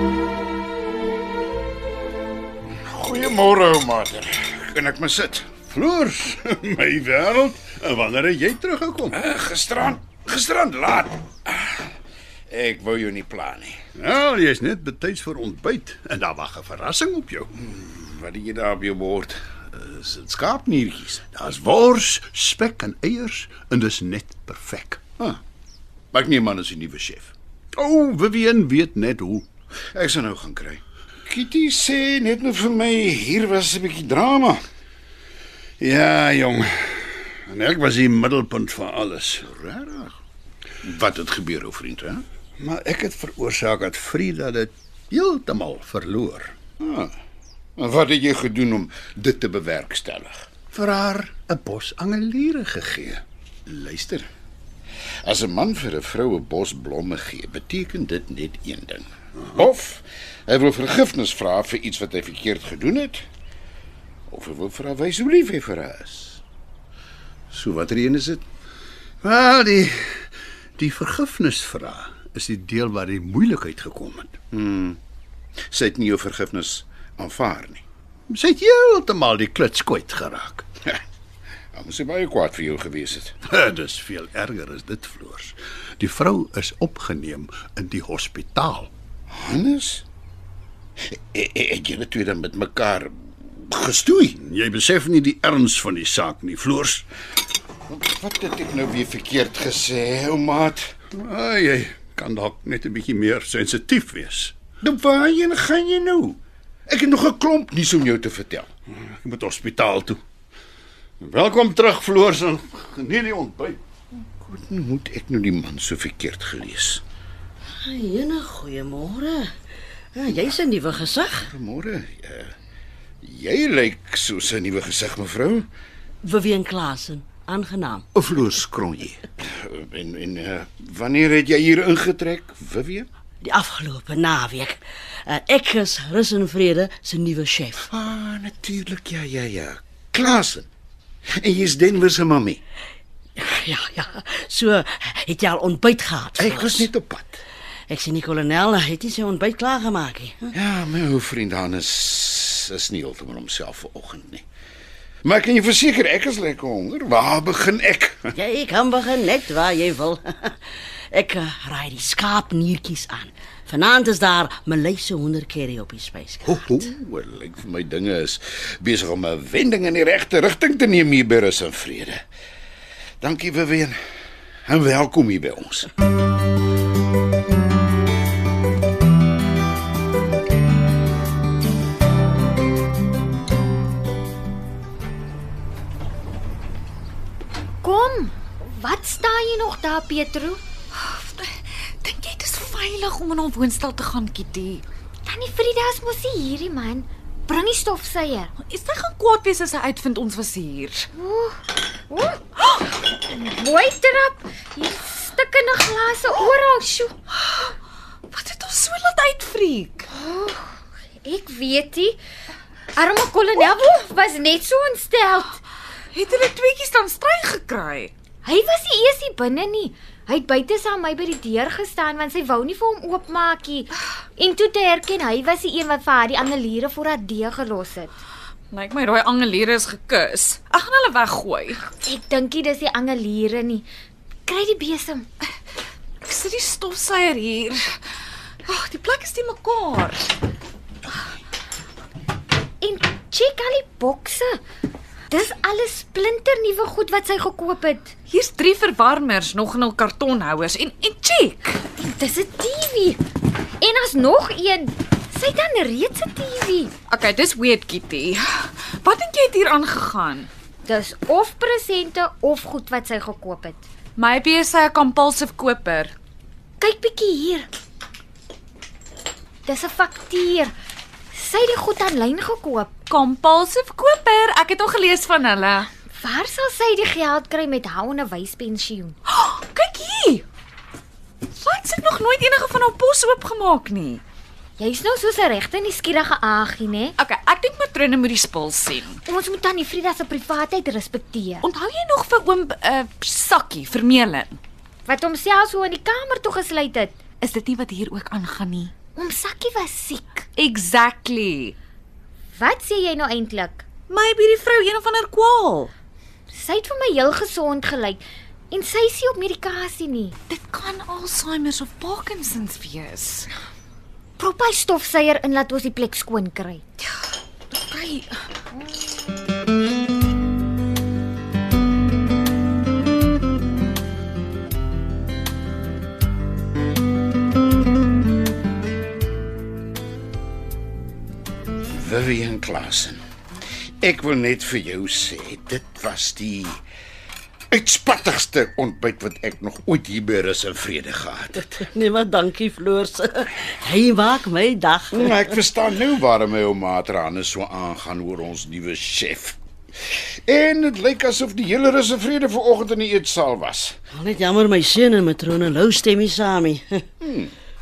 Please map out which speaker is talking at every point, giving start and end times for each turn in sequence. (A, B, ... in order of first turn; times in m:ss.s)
0:02.8-0:05.5 A
0:05.7-0:09.1 B
0:09.1-0:11.9 A
0:12.5-0:13.8 A
0:14.0-0:17.5 B
0:17.6-0:21.3 A
0:21.4-0:25.0 B
0:26.1-0:27.3 A
0:27.8-0:29.5 B
0:29.9-0:34.6 A
0:35.8-0:39.4 B
0:39.4-0:40.2 A
0:40.8-0:42.2 A
0:42.6-0:46.5 B
0:46.8-0:47.1 A
0:47.8-0:50.5 A
0:50.7-0:53.2 B
0:53.7-0:54.3 A
0:55.2-1:03.2 A
1:04.3-1:06.4 A
1:07.5-1:08.4 A
1:09.2-1:14.4 B
1:14.5-1:15.0 A
1:15.7-1:17.8 A
1:18.3-1:20.7 B
1:21.7-1:23.4 A
1:23.5-1:28.9 B
1:29.3-1:30.0 A
1:31.0-1:34.3 A
1:34.3-1:37.1 B
1:37.9-1:41.0 A
1:41.1-1:44.6 B
1:44.8-1:48.7 A
1:49.0-1:50.2 B
1:51.2-1:53.8 B
1:54.4-1:57.0 A
1:57.8-1:59.5 C
2:00.2-2:01.5 C
2:01.4-2:02.5 A
2:03.2-2:05.7 A
2:06.2-2:08.1 C
2:08.2-2:13.1 A
2:13.4-2:17.9 C
2:17.8-2:20.7 A
2:21.4-2:22.6 A
2:23.4-2:26.9 C
2:26.4-2:27.4 A
2:27.9-2:30.5 C
2:30.5-2:34.4 A
2:35.2-2:38.3 A
2:38.4-2:40.6 C
2:41.1-2:46.6 C
2:46.5-2:52.2 A
2:53.2-2:54.0 A
2:54.7-2:55.9 A
3:07.8-3:10.6 D
3:11.0-3:14.8 E
3:15.2-3:18.5 D
3:18.6-3:21.1 E
3:21.1-3:22.4 D
3:23.0-3:27.2 D
3:27.4-3:27.7 E
3:28.3-3:30.1 E
3:30.1-3:32.2 D
3:32.9-3:35.6 D
3:36.1-3:38.1 E
3:38.4-3:48.1 D
3:48.7-3:51.8 E
3:51.9-3:53.9 D
3:54.5-3:55.3 D
3:56.2-3:57.9 E
3:58.6-4:00.4 E
4:02.8-4:04.6 D
4:05.3-4:08.1 D
4:08.3-4:11.8 E
4:12.0-4:13.2 D
4:13.8-4:16.9 D
4:17.1-4:20.5 E
4:20.8-4:23.8 D
4:24.2-4:26.1 E
4:26.8-4:27.7 D
4:29.6-4:30.7 D
4:31.3-4:32.9 D
4:33.1-4:35.9 E
4:36.2-4:39.2 D
4:39.3-4:40.4 E
4:41.6-4:44.2 E
4:44.8-4:47.2 D
4:47.2-4:49.2 E
4:49.2-4:51.7 D
4:51.6-4:54.6 E
4:55.1-4:57.2 D
4:57.4-4:58.9 E
4:59.2-5:00.5 D
5:00.6-5:01.8 E
5:02.6-5:03.8 D
5:04.1-5:05.9 E
5:06.5-5:10.4 D
5:10.5-5:13.5 E
5:14.4-5:16.8 D
5:17.8-5:18.4 E
5:31.9-5:33.2 A
5:34.0-5:36.8 A
5:37.7-5:41.7 A
5:41.8-5:45.5 C
5:45.1-5:54.0 A
5:54.1-5:57.1 C
5:57.2-5:57.5 A